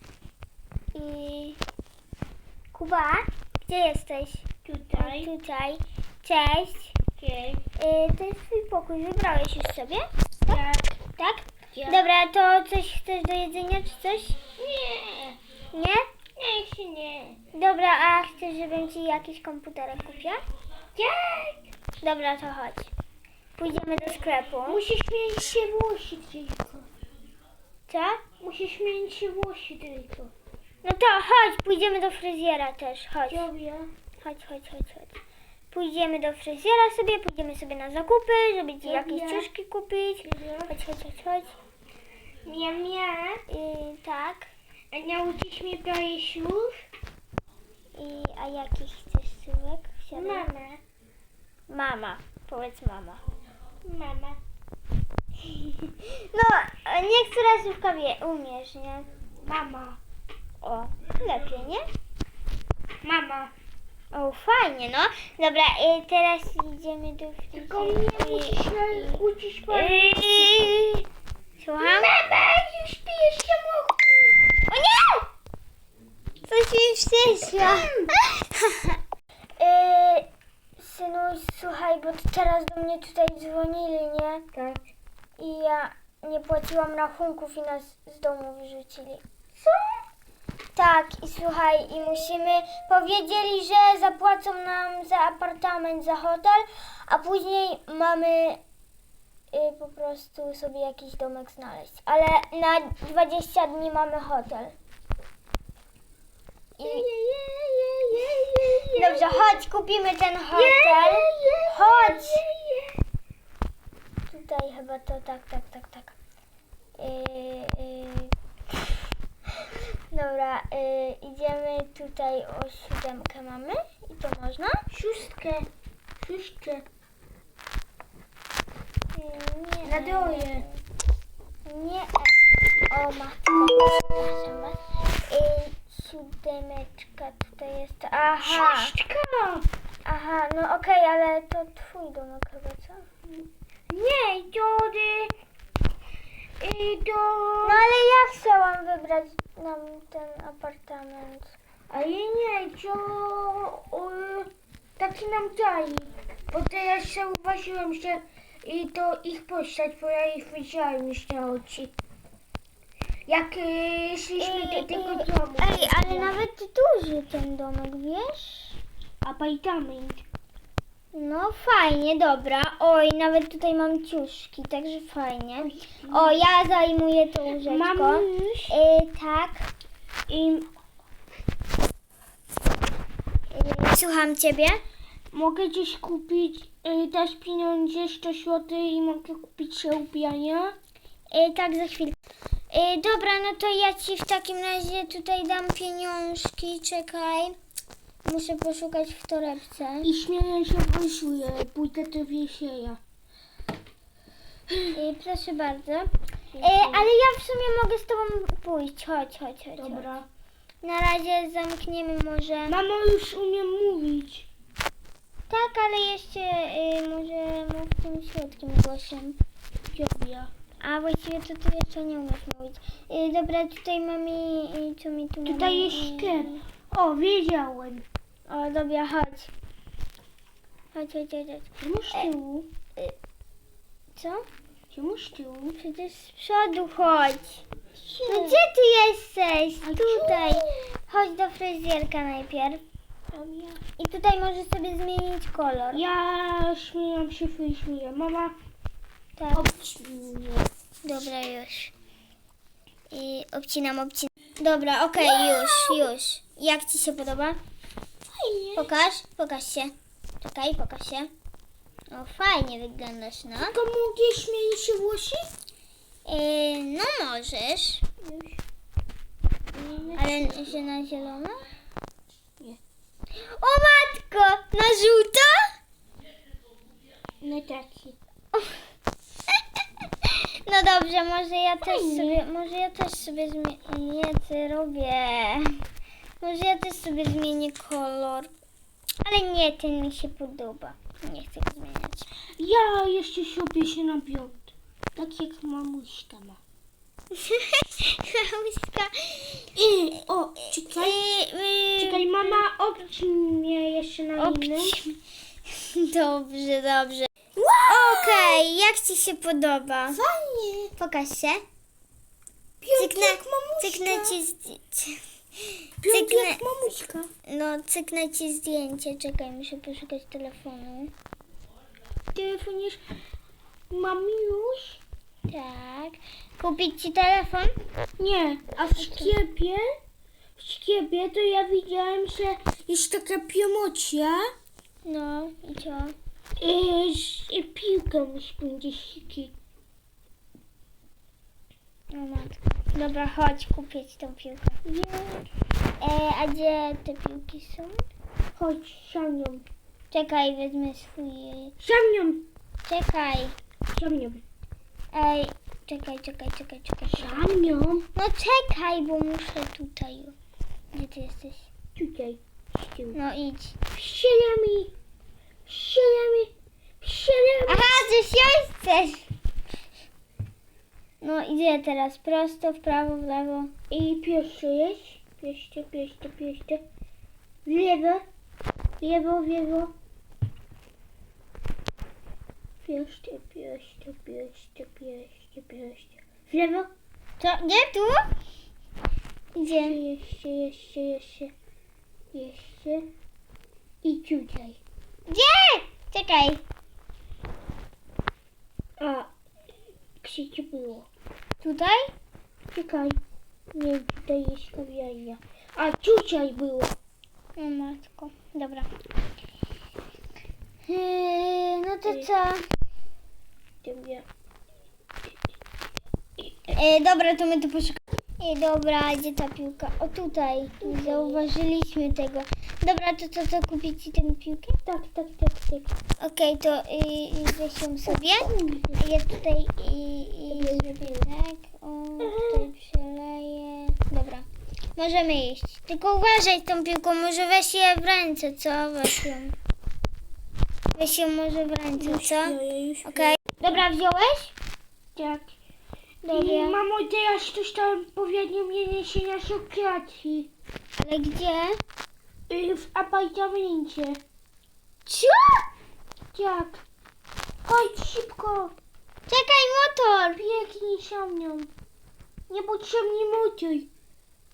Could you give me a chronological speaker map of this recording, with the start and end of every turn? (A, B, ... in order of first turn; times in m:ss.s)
0:00.9-0:01.6 A
0:02.7-0:04.4 A
0:04.6-0:05.3 B
0:05.0-0:07.0 A
0:07.2-0:07.6 B
0:07.8-0:10.6 A
0:10.5-0:11.0 B
0:11.2-0:14.4 A
0:11.7-0:12.0 B
0:14.6-0:15.4 B
0:15.7-0:16.0 A
0:16.4-0:17.4 B
0:17.5-0:20.4 A
0:21.0-0:21.6 B
0:22.0-0:22.9 A
0:23.6-0:24.8 A
0:24.6-0:26.9 B
0:27.9-0:28.2 A
0:28.4-0:30.3 B
0:30.8-0:33.5 A
0:33.3-0:33.9 B
0:34.2-0:35.2 A
0:35.7-0:41.5 A
0:38.8-0:39.5 B
0:40.2-0:40.8 B
0:42.4-0:43.4 B
0:43.5-0:44.5 A
0:44.9-0:46.7 B
0:47.9-0:50.5 A
0:50.1-0:50.8 B
0:51.7-0:53.2 A
0:53.8-0:54.4 B
0:55.5-0:59.1 A
0:59.4-1:00.0 B
1:00.6-1:01.8 A
1:03.0-1:03.5 B
1:04.1-1:11.0 A
1:07.5-1:10.7 B
1:11.6-1:12.1 A
1:11.8-1:14.4 B
1:14.7-1:15.2 A
1:16.4-1:19.0 A
1:17.6-1:18.1 B
1:19.6-1:24.4 A
1:24.5-1:24.8 B
1:25.4-1:29.2 A
1:29.6-1:30.0 B
1:30.7-1:38.6 A
1:39.5-1:44.7 A
1:46.8-1:47.0 A
1:46.8-1:49.5 B
1:49.0-1:52.4 A
1:50.5-1:53.0 B
1:54.3-1:56.2 A
1:57.0-1:58.3 A
1:59.6-2:04.8 A
2:04.9-2:05.7 B
2:06.2-2:06.8 B
2:09.1-2:10.8 A
2:09.8-2:10.6 B
2:11.6-2:12.3 A
2:12.9-2:18.9 A
2:18.4-2:19.7 B
2:20.0-2:23.0 A
2:23.4-2:25.3 B
2:26.6-2:27.9 B
2:27.6-2:31.5 A
2:31.9-2:41.9 B
2:43.3-2:46.4 B
2:44.4-2:48.8 A
2:49.2-2:50.2 B
2:51.1-2:59.7 A
2:55.6-2:56.4 B
2:57.6-2:58.7 B
3:00.3-3:00.7 B
3:03.5-3:04.8 A
3:05.3-3:10.8 B
3:11.3-3:12.2 A
3:12.7-3:17.6 A
3:18.2-3:20.1 A
3:20.0-3:23.0 B
3:24.9-3:26.1 A
3:26.5-3:27.1 B
3:26.6-3:30.1 A
3:29.8-3:30.3 B
3:30.8-3:32.8 A
3:32.7-3:34.5 B
3:35.5-3:39.4 A
3:39.9-3:40.5 B
3:40.8-3:46.6 A
3:45.4-3:48.0 B
3:48.5-3:49.5 A
3:50.9-3:53.1 A
3:51.8-3:52.3 B
3:54.2-3:54.5 A
3:54.9-3:55.8 B
3:55.8-3:57.6 A
3:58.0-3:58.6 B
3:58.3-4:02.8 A
3:59.8-4:00.9 B
4:03.3-4:03.8 B
4:04.0-4:06.0 A
4:05.9-4:08.5 B
4:09.4-4:09.7 A
4:09.5-4:10.7 B
4:11.0-4:11.9 A
4:13.1-4:17.6 A
4:15.2-4:16.1 B
4:18.3-4:18.9 B
4:18.8-4:21.3 A
4:22.1-4:23.8 A
4:23.6-4:25.4 B
4:26.2-4:28.0 A
4:28.2-4:28.6 B
4:29.7-4:30.8 B
4:30.1-4:31.6 A
4:33.4-4:35.6 A
4:37.4-4:38.2 B
4:40.2-4:45.7 A
4:41.8-4:42.4 B
4:46.4-4:48.5 A
4:49.2-4:52.3 A
4:52.6-4:56.6 B
4:57.3-4:59.7 A
4:59.7-5:01.2 B
5:00.9-5:02.6 A
5:02.0-5:05.0 B
5:04.4-5:05.2 A
5:05.7-5:07.3 A
5:07.6-5:08.6 B
5:07.9-5:10.2 A
5:10.1-5:10.9 B
5:11.0-5:11.6 A
5:12.8-5:14.4 B
5:12.9-5:16.6 A
5:16.0-5:17.3 B
5:17.4-5:21.1 A
5:22.3-5:23.0 B
5:23.9-5:25.0 B
5:25.5-5:27.7 A
5:28.2-5:29.9 B
5:28.9-5:29.3 A
5:30.6-5:34.4 B
5:35.0-5:36.1 A
5:36.6-5:39.5 B
5:42.1-5:44.8 A
5:44.8-5:45.4 B
5:46.0-5:48.0 A
5:48.6-5:49.6 B
5:50.1-5:51.8 A
5:51.8-5:52.5 B
5:52.8-5:53.6 A
5:53.9-5:54.4 B
5:55.1-5:57.6 A
5:57.1-5:58.1 B
5:58.1-6:00.3 A
6:00.9-6:01.7 A
6:02.0-6:03.2 B
6:03.1-6:03.8 A
6:03.9-6:04.9 B
6:05.6-6:08.0 B
6:07.7-6:09.2 A
6:11.2-6:13.7 A
6:13.9-6:16.8 B
6:17.6-6:18.2 B
6:19.0-6:19.9 B
6:22.8-6:26.9 B
6:27.4-6:28.2 A
6:29.6-6:30.0 A
6:29.6-6:31.5 B
6:32.3-6:33.1 B
6:34.0-6:34.8 B
6:35.3-6:36.6 A
6:39.0-6:39.3 B
6:40.2-6:41.0 B
6:41.6-6:42.1 A
6:42.7-6:43.2 B
6:43.7-6:46.9 B
6:47.6-6:48.9 A
6:50.9-6:52.6 A
6:53.8-6:54.2 B
6:56.7-7:04.8 A
7:00.8-7:01.4 B
7:04.8-7:05.9 B
7:06.2-7:19.6 A
7:08.1-7:09.0 B
7:10.5-7:11.3 B
7:12.2-7:12.7 B
7:20.9-7:24.5 A
7:22.0-7:23.8 B
7:25.2-7:25.5 B
7:26.2-7:26.8 A
7:26.3-7:30.5 B
7:31.0-7:31.8 A
7:32.5-7:34.2 B
7:35.1-7:35.4 A
7:36.3-7:36.8 B
7:37.6-7:38.7 B
7:39.3-7:40.4 A
7:40.4-7:41.7 B
7:42.5-7:43.9 B